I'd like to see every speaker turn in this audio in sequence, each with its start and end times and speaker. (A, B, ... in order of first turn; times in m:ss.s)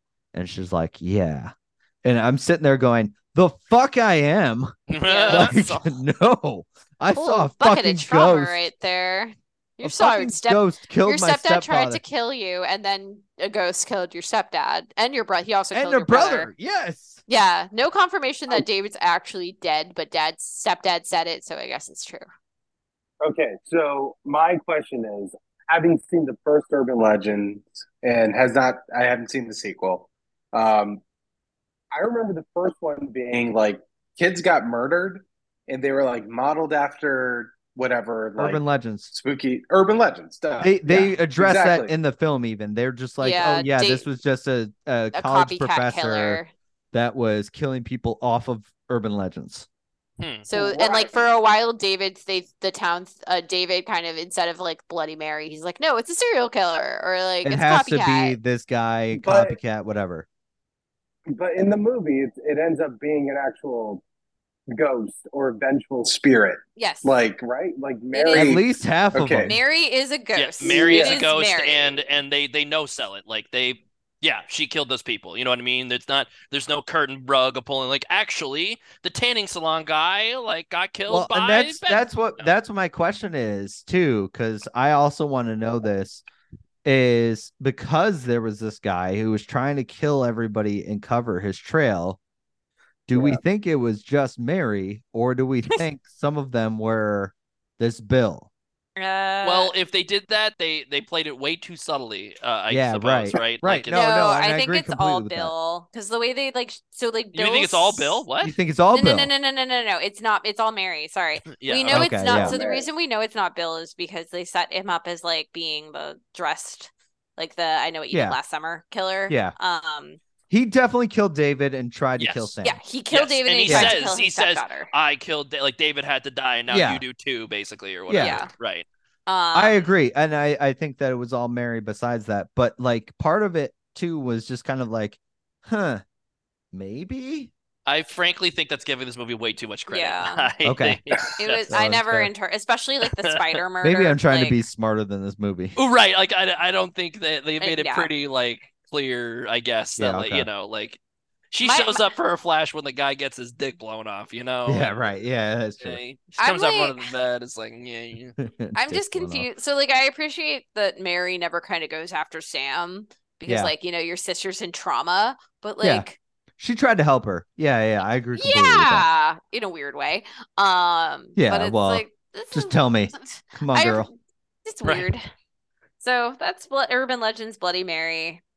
0:00.3-0:01.5 A
0:02.0-0:04.8 A
0:04.9-0:05.5 B
0:05.0-0:05.9 C
0:05.3-0:08.6 A
0:07.1-0:16.5 C
0:09.8-0:12.0 A
0:15.7-0:17.2 A
0:17.3-0:22.2 C
0:23.2-0:31.0 D
0:31.9-0:41.9 D
0:38.4-0:39.1 A
0:40.6-0:46.4 A
0:43.2-0:44.0 C
0:45.1-0:46.5 C
0:46.9-0:49.7 A
0:50.2-0:50.5 B
0:50.5-0:58.4 C
0:50.5-0:51.2 D
0:57.4-1:00.2 A
0:59.1-0:59.6 D
1:01.3-1:04.0 D
1:04.7-1:09.5 D
1:06.8-1:07.1 C
1:08.1-1:08.6 C
1:08.3-1:09.6 A
1:09.4-1:12.0 C
1:10.3-1:22.5 B
1:10.6-1:11.2 D
1:21.1-1:26.2 A
1:26.8-1:32.2 A
1:33.1-1:38.5 A
1:33.1-1:33.4 D
1:39.0-1:39.7 C
1:39.4-1:44.0 B
1:42.7-1:45.5 A
1:43.9-1:48.2 C
1:47.3-1:48.5 B
1:48.4-1:49.3 A
1:48.9-2:00.2 C
1:51.5-1:52.0 B
1:51.9-1:52.6 A
1:52.2-1:52.9 D
1:58.1-1:58.4 A
1:59.3-1:59.5 A
2:00.5-2:02.8 A
2:02.2-2:02.5 B
2:02.6-2:04.9 C
2:03.1-2:08.8 B
2:03.7-2:04.0 A
2:06.7-2:07.0 A
2:08.1-2:08.4 A
2:08.2-2:08.5 C
2:09.3-2:09.8 C
2:09.5-2:16.0 A
2:16.7-2:17.5 A
2:17.8-2:21.7 B
2:19.9-2:20.5 C
2:20.6-2:21.0 A
2:21.4-2:24.6 C
2:21.7-2:22.3 A
2:23.1-2:23.6 B
2:23.8-2:25.8 A
2:25.8-2:31.0 B
2:27.6-2:28.1 C
2:30.0-2:30.5 A
2:31.5-2:35.1 B
2:31.6-2:32.1 C
2:34.6-2:36.0 A
2:35.8-2:38.4 B
2:36.4-2:37.1 C
2:38.4-2:39.5 A
2:38.7-2:46.2 C
2:43.5-2:43.7 A
2:46.6-2:49.0 A
2:48.4-2:54.1 C
2:51.4-2:54.1 A
2:54.6-2:55.2 C
2:56.0-2:58.4 C